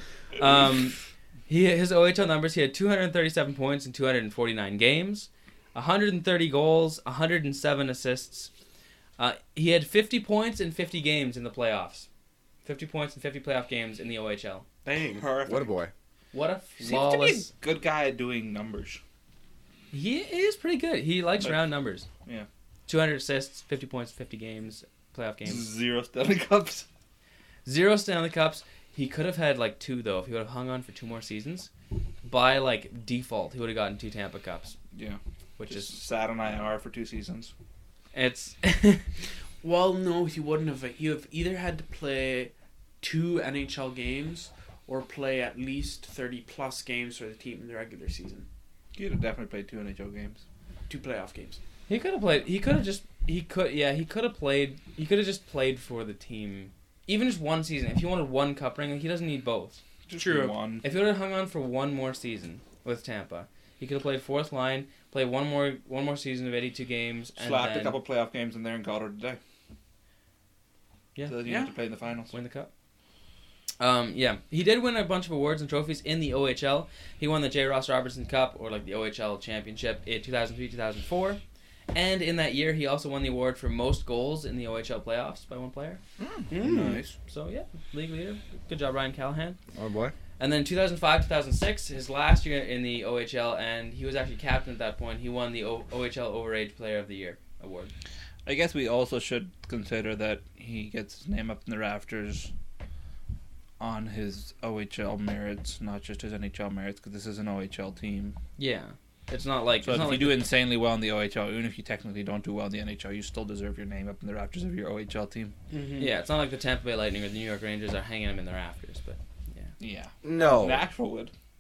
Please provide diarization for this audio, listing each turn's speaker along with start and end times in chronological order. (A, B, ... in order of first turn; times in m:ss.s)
0:00.4-0:08.5 A
0:09.2-0:12.1 A
0:12.6-0:14.7 A
0:14.8-0:15.3 B
0:15.1-0:15.7 C
0:15.4-0:15.9 D
0:16.3-0:17.5 A
0:16.8-0:19.0 C
0:19.9-0:22.1 A
0:22.9-0:25.6 A
0:25.4-0:26.9 C
0:27.6-0:31.7 A
0:32.2-0:34.8 A
0:34.9-0:37.5 C
0:35.6-0:36.0 A
0:38.1-0:39.0 A
0:39.6-0:48.5 B
0:49.0-0:50.4 C
0:50.9-0:51.6 B
0:51.9-0:59.8 A
1:00.1-1:00.8 C
1:00.2-1:00.6 B
1:00.8-1:08.0 A
1:07.4-1:09.4 C
1:11.3-1:12.3 C
1:11.4-1:11.7 B
1:12.3-1:12.7 A
1:13.8-1:21.4 A
1:21.9-1:26.0 A
1:26.2-1:26.5 D
1:26.5-1:27.0 B
1:26.6-1:27.2 C
1:27.3-1:29.6 A
1:29.7-1:30.2 D
1:30.4-1:37.9 A
1:38.5-1:42.5 C
1:43.8-1:48.4 C
1:48.6-1:50.5 A
1:49.8-1:55.5 C
1:55.7-1:56.1 B
1:56.0-1:59.7 A
1:59.8-2:01.3 C
2:00.2-2:00.8 D